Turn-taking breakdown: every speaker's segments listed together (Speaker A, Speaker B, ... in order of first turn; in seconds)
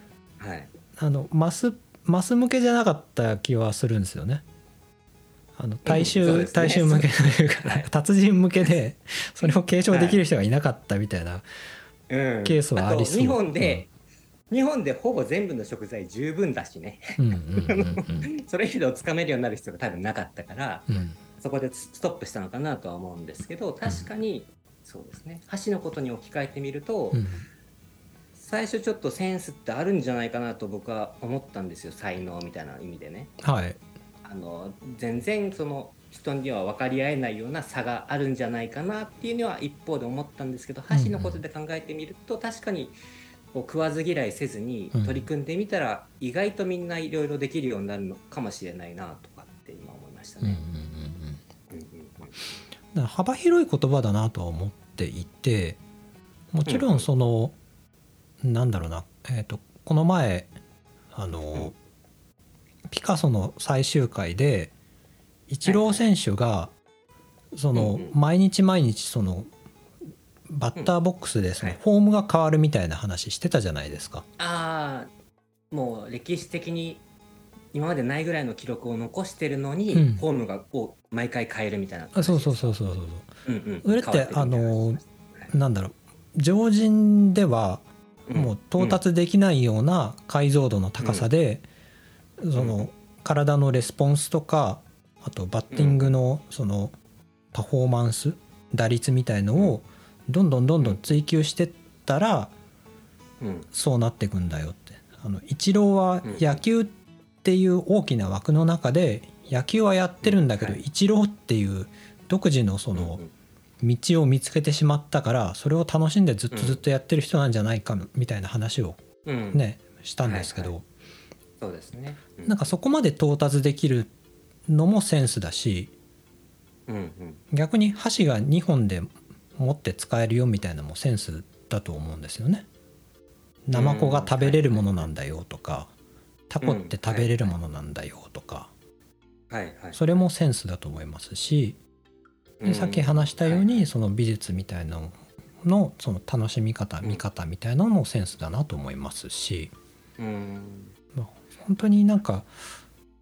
Speaker A: 0.4-0.7, 5.8-7.9, 9.9-10.2, 12.1-13.9, 14.5-27.3, 28.4-33.3, 34.2-43.0, 43.5-50.6, 51.7-52.4, 56.7-57.1, 65.7-66.0, 67.7-68.2, 74.4-75.1, 75.7-77.0, 77.7-82.8, 83.5-85.5, 88.3-89.0, 91.0-91.3, 92.5-92.9, 95.7-96.2, 103.4-103.7, 106.2-106.6, 110.2-110.8, 113.0-113.3, 116.5-116.8, 119.2-119.6, 120.2-120.7, 121.6-122.7, 126.9-127.4, 133.7-135.1, 136.6-137.6, 139.5-140.0, 142.6-143.9, 150.2-150.9
Speaker B: 1.0-4.4, 5.6-11.5, 12.4-13.9, 17.2-18.3, 20.9-21.2, 27.1-27.4, 33.4-33.8, 40.9-41.4, 44.9-45.3, 50.4-51.4, 52.9-55.8, 56.5-57.5, 58.4-60.5, 61.1-61.8, 62.9-64.7, 65.5-66.7, 67.5-69.5, 70.5-74.3, 79.9-80.2, 82.2-83.3, 83.8-91.7, 92.4-97.0, 97.5-102.5, 103.7-113.2, 113.8-119.0, 119.5-120.8, 122.5-124.1, 124.7-125.9, 127.5-132.7, 133.7-135.9, 136.5-138.7, 139.9-141.8, 142.6-149.7, 151.1-152.5